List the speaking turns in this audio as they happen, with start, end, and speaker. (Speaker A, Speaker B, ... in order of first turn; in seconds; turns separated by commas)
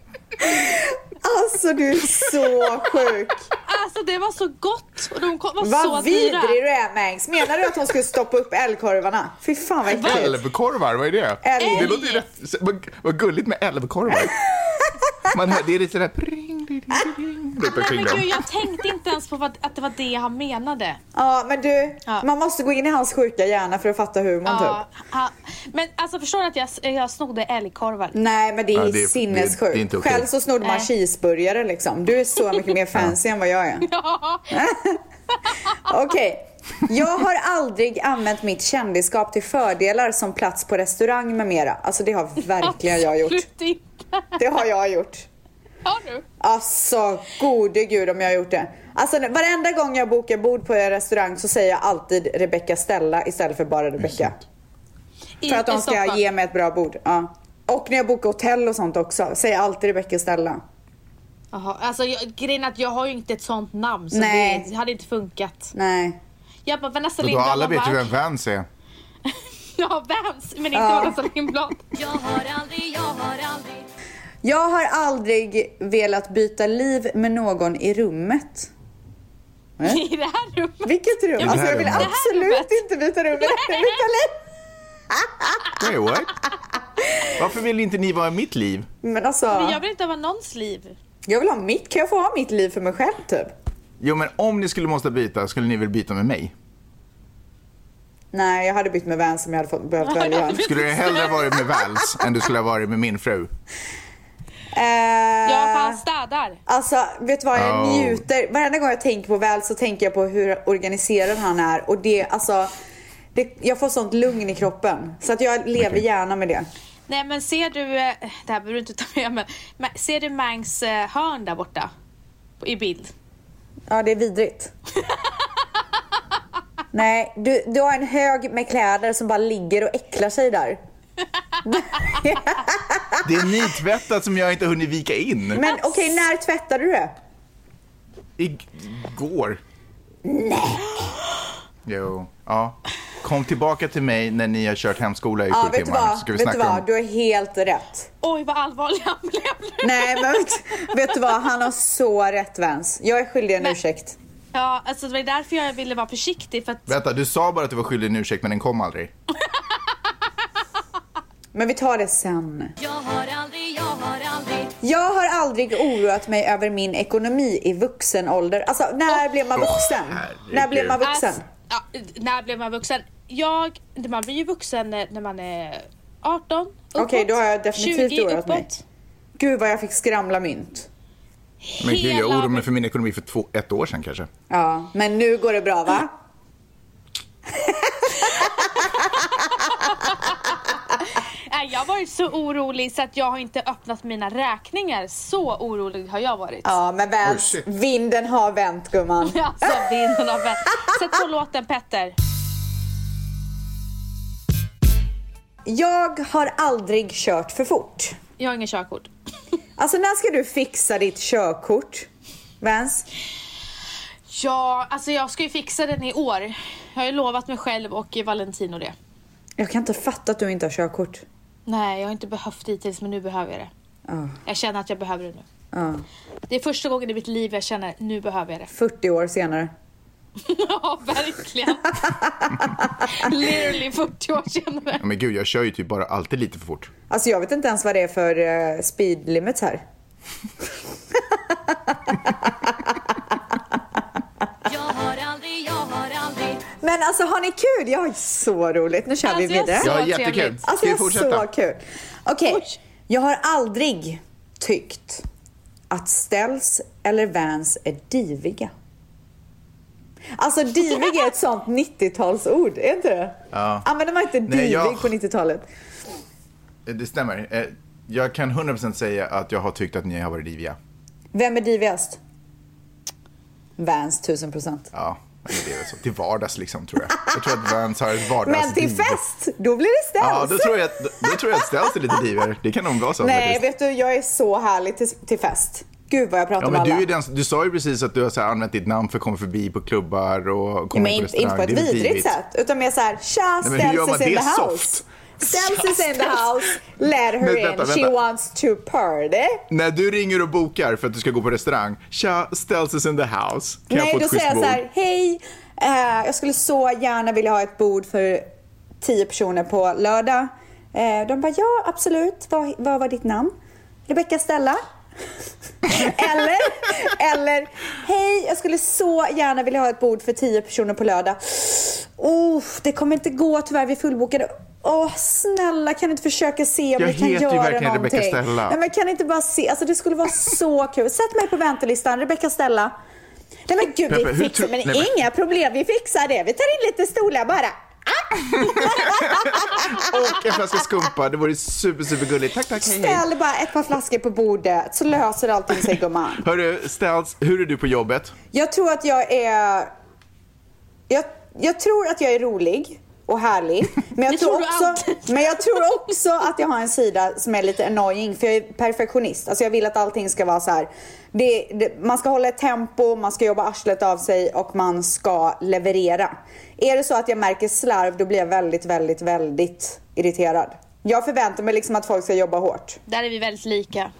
Speaker A: 0.4-3.5, Speaker B: 3.6-6.6, Speaker A: 5.6-10.4, Speaker C: 10.0-14.4, Speaker A: 11.4-11.9, Speaker B: 11.6-12.2, Speaker A: 14.5-15.0, Speaker C: 15.3-18.4, Speaker B: 17.6-21.0, Speaker A: 21.1-24.8, Speaker B: 24.4-28.1, Speaker A: 28.1-33.9, Speaker C: 28.7-30.3, Speaker B: 30.6-30.9, Speaker B: 33.8-34.6, Speaker A: 34.5-35.0, Speaker A: 35.8-43.4, Speaker B: 42.6-44.4, Speaker A: 44.4-45.3, Speaker B: 45.9-46.2, Speaker A: 46.4-54.4, Speaker B: 55.4-56.2, Speaker A: 55.4-60.6, Speaker B: 61.5-65.7, Speaker A: 64.1-64.7, Speaker A: 65.7-66.2, Speaker B: 66.7-68.1, Speaker C: 67.2-68.7, Speaker B: 69.2-71.9, Speaker A: 70.7-71.2, Speaker D: 71.9-73.9, Speaker A: 74.4-78.7, Speaker B: 79.8-82.8, Speaker A: 80.8-84.3, Speaker C: 81.4-82.1, Speaker B: 83.3-84.0, Speaker A: 85.1-85.7, Speaker C: 85.8-86.3, Speaker C: 87.4-88.9, Speaker A: 89.0-89.8, Speaker B: 89.5-91.0, Speaker A: 91.3-93.5, Speaker C: 94.0-96.5, Speaker A: 98.3-100.8, Speaker B: 100.1-101.6, Speaker C: 100.6-103.5, Speaker A: 104.7-106.0, Speaker B: 105.5-106.6, Speaker A: 106.7-112.7, Speaker C: 107.5-108.2, Speaker A: 113.3-116.7, Speaker B: 117.1-121.9, Speaker B: 122.6-123.1, Speaker A: 123.9-124.7, Speaker A: 126.9-130.8, Speaker A: 131.6-133.2, Speaker C: 133.2-135.6, Speaker A: 135.5-137.2, Speaker C: 138.4-139.6, Speaker A: 140.2-141.1, Speaker C: 141.9-146.9, Speaker A: 145.5-148.1, Speaker B: 148.2-150.5, Speaker A: 149.8-154.2, Speaker B: 154.5-156.9, Speaker C: 156.9-159.1, Speaker A: 161.5-162.7, Speaker D: 162.8-164.7, Speaker A: 164.8-171.4, Speaker C: 169.6-171.0, Speaker B: 171.0-178.8, Speaker A: 177.0-178.7, Speaker A: 179.4-180.9, Speaker B: 181.6-182.7, Speaker C: 181.8-184.3, Speaker A: 184.5-186.1, Speaker A: 187.5-188.9, Speaker B: 191.5-196.8, Speaker A: 196.6-199.9, Speaker C: 197.2-197.6, Speaker B: 199.2-202.1, Speaker A: 205.7-208.2, Speaker B: 208.4-209.1, Speaker A: 209.8-212.1, Speaker A: 212.6-213.1, Speaker B: 214.3-218.9, Speaker A: 219.6-221.2, Speaker B: 221.7-223.7, Speaker A: 224.1-224.4, Speaker B: 224.4-225.4, Speaker A: 225.7-226.0, Speaker B: 226.5-228.7, Speaker A: 228.7-229.7, Speaker B: 230.4-232.0, Speaker A: 232.0-233.0, Speaker B: 233.0-235.0, Speaker C: 235.0-236.9, Speaker A: 237.1-239.8, Speaker A: 241.3-243.2, Speaker D: 244.7-246.6, Speaker A: 246.8-249.9, Speaker B: 249.2-250.6, Speaker C: 249.8-251.5, Speaker A: 250.6-255.2, Speaker B: 252.5-252.8, Speaker A: 255.9-258.7, Speaker A: 260.4-265.6, Speaker C: 263.5-263.9, Speaker C: 264.4-265.1, Speaker C: 266.9-270.8, Speaker A: 271.3-272.2, Speaker A: 273.8-274.9, Speaker C: 274.9-279.2, Speaker A: 278.4-281.7, Speaker C: 280.2-283.6, Speaker A: 283.2-287.1, Speaker C: 286.6-292.4, Speaker A: 290.9-299.6, Speaker C: 293.6-296.6, Speaker C: 297.4-298.1, Speaker C: 299.7-304.8, Speaker A: 303.9-308.5, Speaker A: 309.0-313.5, Speaker A: 314.1-314.8, Speaker A: 315.8-332.9, Speaker C: 327.0-328.8, Speaker A: 333.7-340.1, Speaker C: 334.1-335.1, Speaker C: 338.6-343.2, Speaker A: 342.8-346.4, Speaker C: 346.4-348.4, Speaker A: 348.5-349.9, Speaker A: 351.1-373.0, Speaker B: 354.3-355.8, Speaker B: 373.1-374.1